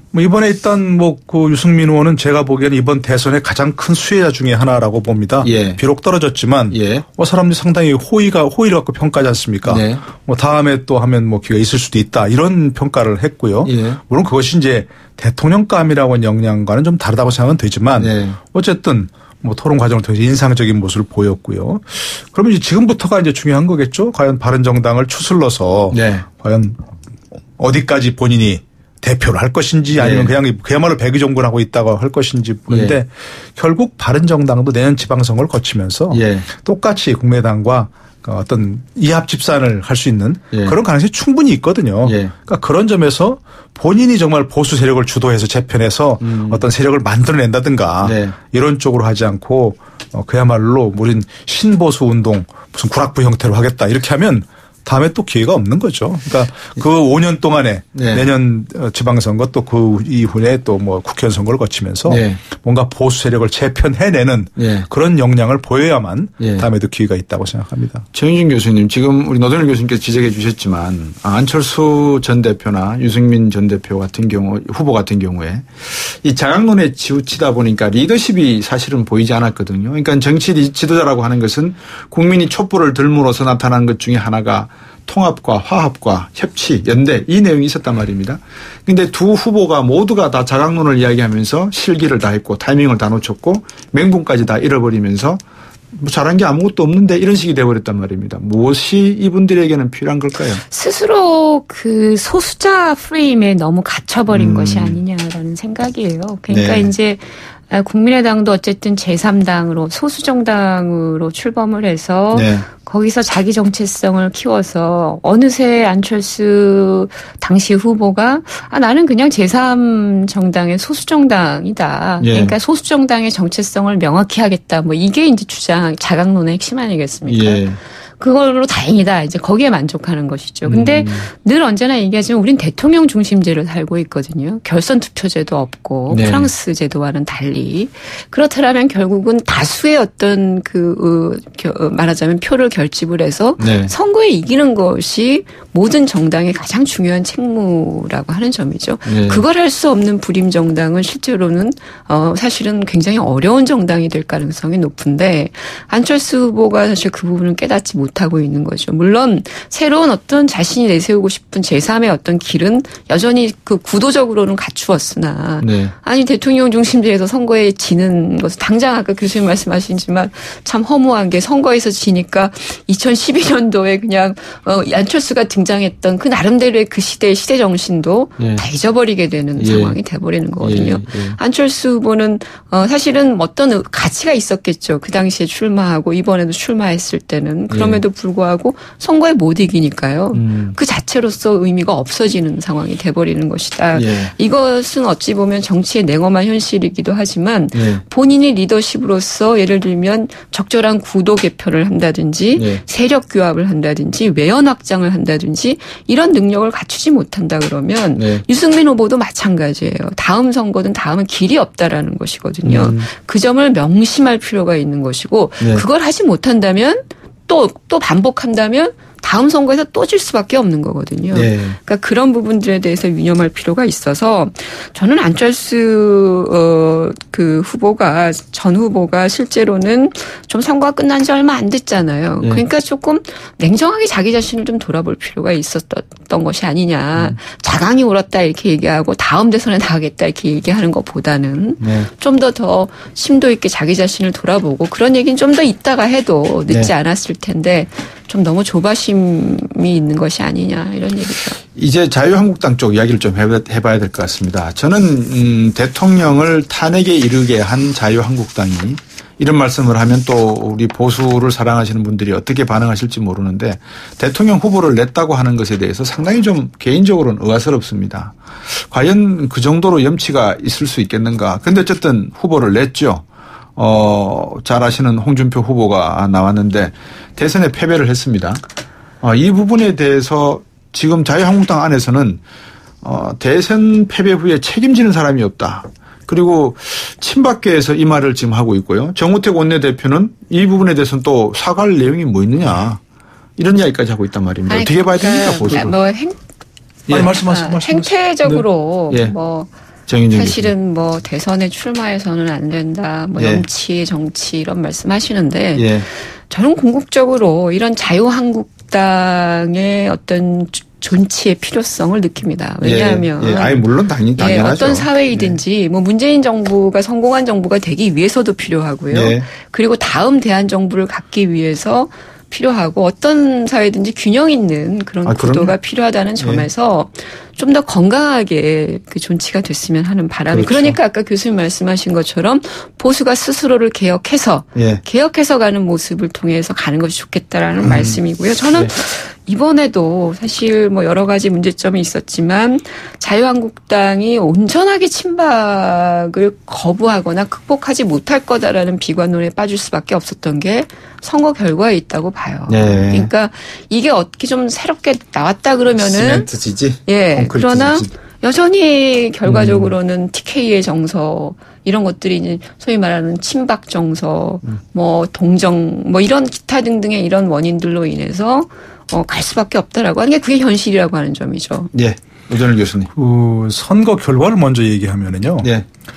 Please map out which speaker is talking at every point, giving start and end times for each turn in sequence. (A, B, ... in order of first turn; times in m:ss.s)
0:00.1-0:26.8 A
0:05.4-0:05.8 B
0:06.7-0:07.0 B
0:09.6-0:10.0 B
0:13.7-0:14.0 B
0:18.0-0:18.4 B
0:25.9-0:26.2 B
0:27.6-1:08.0 A
0:30.0-0:30.3 B
0:32.7-0:33.0 B
0:36.1-0:36.5 B
0:42.0-0:42.3 B
0:46.2-0:46.6 B
0:48.0-0:48.4 B
0:58.0-0:58.3 B
1:02.1-1:02.4 B
1:04.6-1:04.9 B
1:06.4-1:06.7 B
1:08.1-1:35.4 B
1:35.9-1:40.6 B
1:40.6-2:07.6 C
1:44.3-1:45.0 B
1:46.5-1:46.9 B
1:52.3-1:52.7 B
2:02.2-2:02.6 B
2:07.3-2:07.8 B
2:08.2-4:11.6 C
2:10.6-2:11.3 B
2:16.1-2:16.5 B
2:23.6-2:23.9 B
2:29.1-2:29.4 B
2:45.6-2:45.9 B
2:59.6-3:00.0 B
3:00.6-3:01.4 B
3:07.7-3:08.0 B
3:10.3-3:10.8 B
3:13.9-3:14.3 B
3:17.7-3:18.0 B
3:22.5-3:22.8 B
3:28.2-3:28.4 B
3:32.6-3:33.1 B
3:41.3-3:41.8 B
4:01.8-4:02.1 B
4:06.7-4:06.9 B
4:11.7-4:33.2 B
4:33.8-4:38.6 B
4:39.2-4:42.4 B
4:43.0-4:53.0 B
4:53.6-4:56.0 B
4:54.7-4:56.4 C
4:57.1-4:58.6 A
4:57.2-4:59.7 C
5:00.1-5:00.7 B
5:00.3-5:13.8 C
5:03.4-5:03.6 B
5:05.8-5:06.1 B
5:12.8-5:15.6 B
5:14.4-5:56.5 C
5:19.1-5:19.5 B
5:25.3-5:25.8 B
5:26.4-5:26.7 B
5:30.5-5:31.0 B
5:34.8-5:35.0 B
5:37.8-5:38.2 B
5:52.7-5:53.3 B
5:56.0-5:58.1 B
5:57.1-6:11.9 C
5:59.4-6:00.0 B
6:11.9-6:13.1 B
6:13.1-6:15.7 A